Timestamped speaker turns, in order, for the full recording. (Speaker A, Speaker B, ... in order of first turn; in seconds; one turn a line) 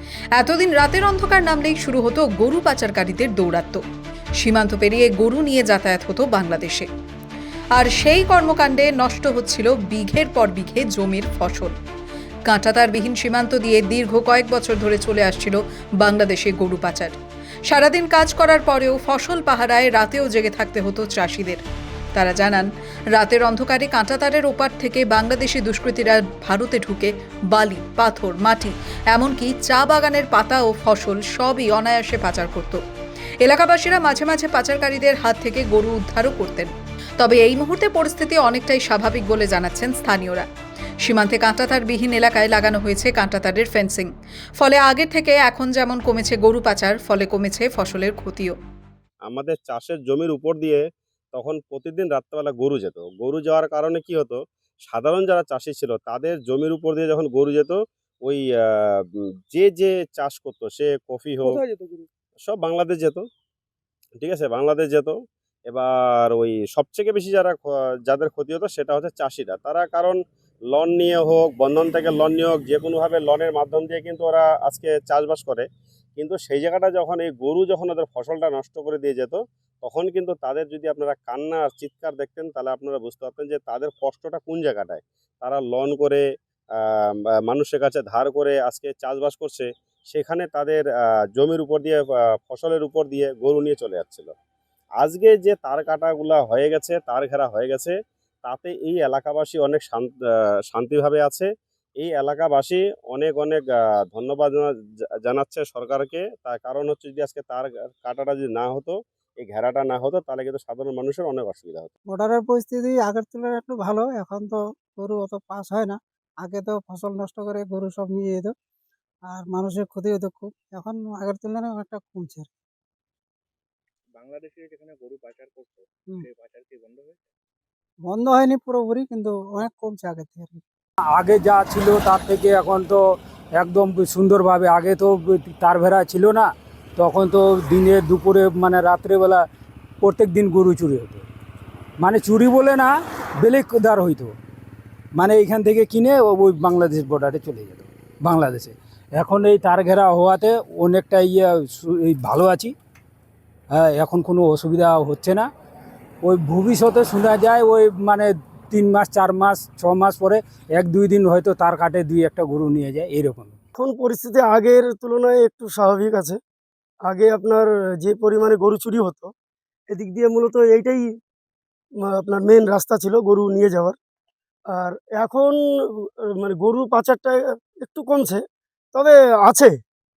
Speaker A: 0.3-3.8
Speaker A: 4.4-6.9
Speaker A: 7.7-11.8
Speaker A: 12.5-21.6
Speaker A: 22.1-32.8
Speaker A: 33.4-40.5
Speaker A: 41.0-48.6
Speaker B: 49.3-61.6
Speaker C: 61.5-62.0
Speaker B: 62.5-63.2
Speaker B: 64.2-65.2
Speaker B: 65.7-70.2
Speaker B: 70.7-75.7
Speaker B: 76.2-86.2
Speaker B: 87.5-94.3
Speaker B: 95.0-100.1
Speaker B: 100.7-101.5
Speaker B: 102.0-104.7
Speaker B: 105.3-111.9
Speaker D: 112.1-118.5
Speaker D: 119.3-122.5
Speaker C: 124.2-127.2
Speaker D: 128.0-130.6
Speaker E: 131.1-133.0
Speaker E: 133.5-139.4
Speaker E: 140.0-141.3
Speaker E: 142.0-144.3
Speaker E: 145.2-152.7
Speaker E: 153.7-155.5
Speaker E: 156.2-163.6
Speaker F: 163.8-166.4
Speaker F: 167.1-169.3
Speaker F: 169.9-171.0
Speaker F: 172.0-174.0
Speaker F: 174.7-178.4
Speaker F: 178.9-179.7